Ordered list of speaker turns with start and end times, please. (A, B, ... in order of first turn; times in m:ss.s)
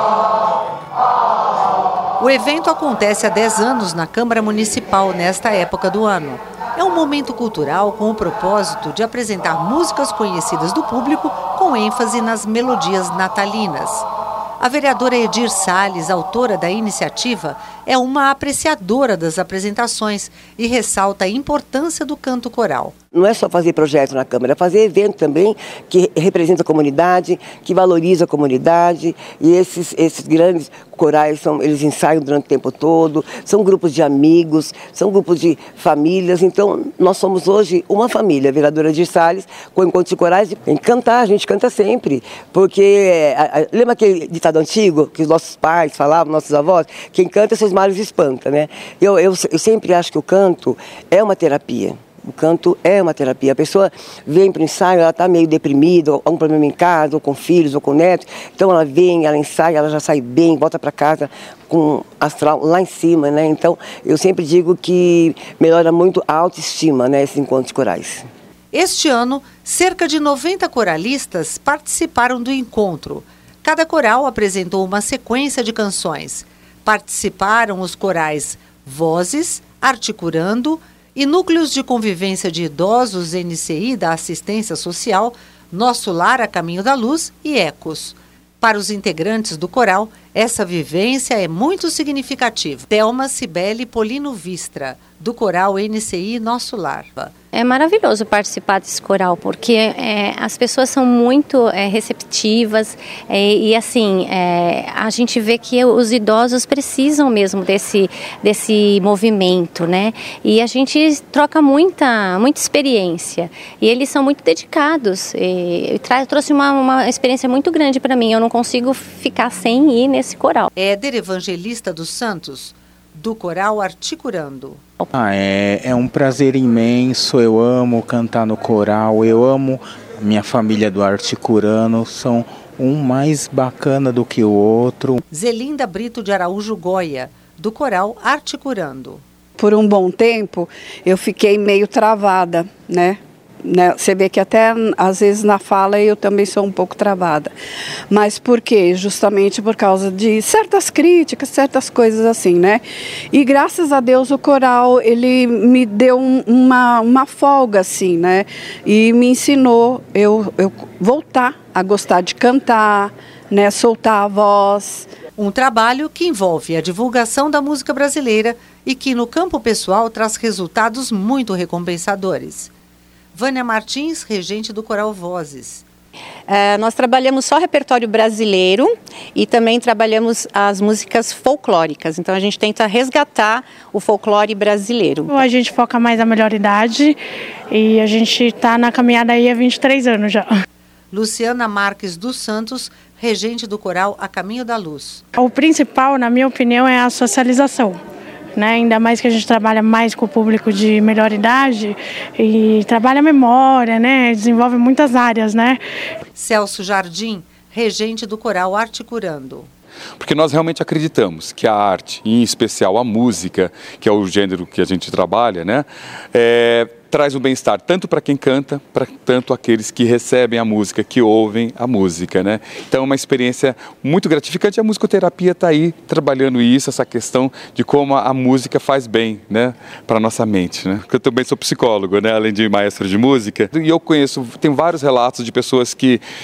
0:02.2-0:14.1 A
0:14.6-0:22.9 A
0:23.1-1:08.2 B
1:08.7-1:37.3 A
1:37.5-2:00.7 C
2:00.8-2:04.8 A
2:05.1-2:15.2 D
2:15.3-2:19.2 A
2:19.6-2:27.5 E
2:28.1-2:45.1 E
2:45.4-2:52.7 A
2:53.3-2:55.8 A
2:56.5-2:57.8 F
2:59.4-3:00.7 F
3:02.1-3:02.9 F
3:05.4-3:07.2 G
3:07.7-3:10.5 G
3:11.1-3:15.2 A
3:15.4-3:18.0 G
3:18.6-3:25.8 G
3:26.4-3:29.7 A
3:30.2-3:56.2 H